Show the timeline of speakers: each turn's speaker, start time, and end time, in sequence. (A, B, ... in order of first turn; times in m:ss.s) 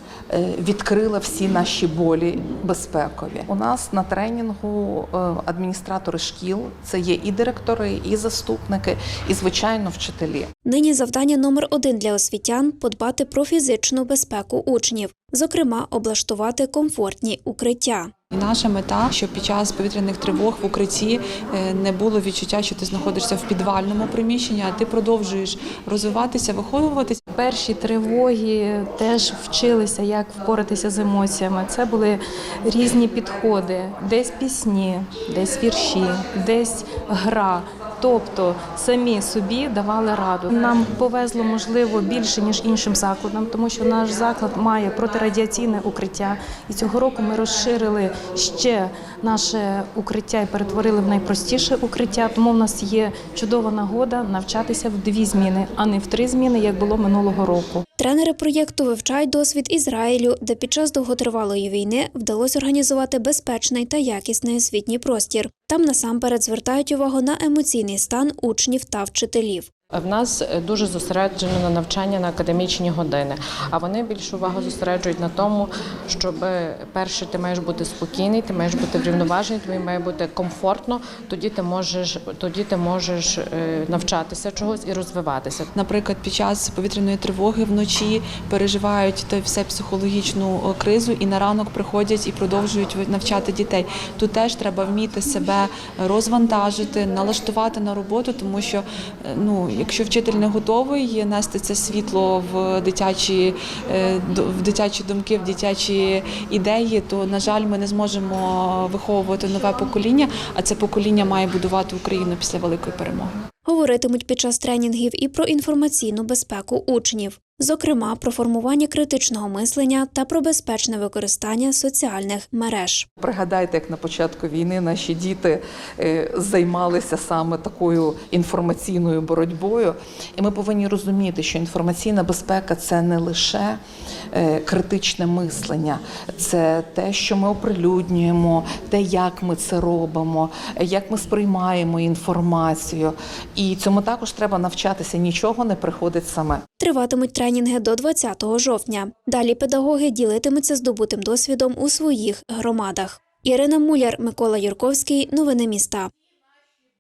0:00.3-0:10.5 A
0:10.6-0:18.1 B
0:18.3-0:27.2 C
0:27.3-0:57.8 D
0:58.0-1:09.7 B
1:09.9-1:25.7 E
1:25.7-1:53.3 C
1:53.6-2:03.1 B
2:03.2-2:13.8 A
2:14.3-2:26.6 A
2:26.8-2:36.1 B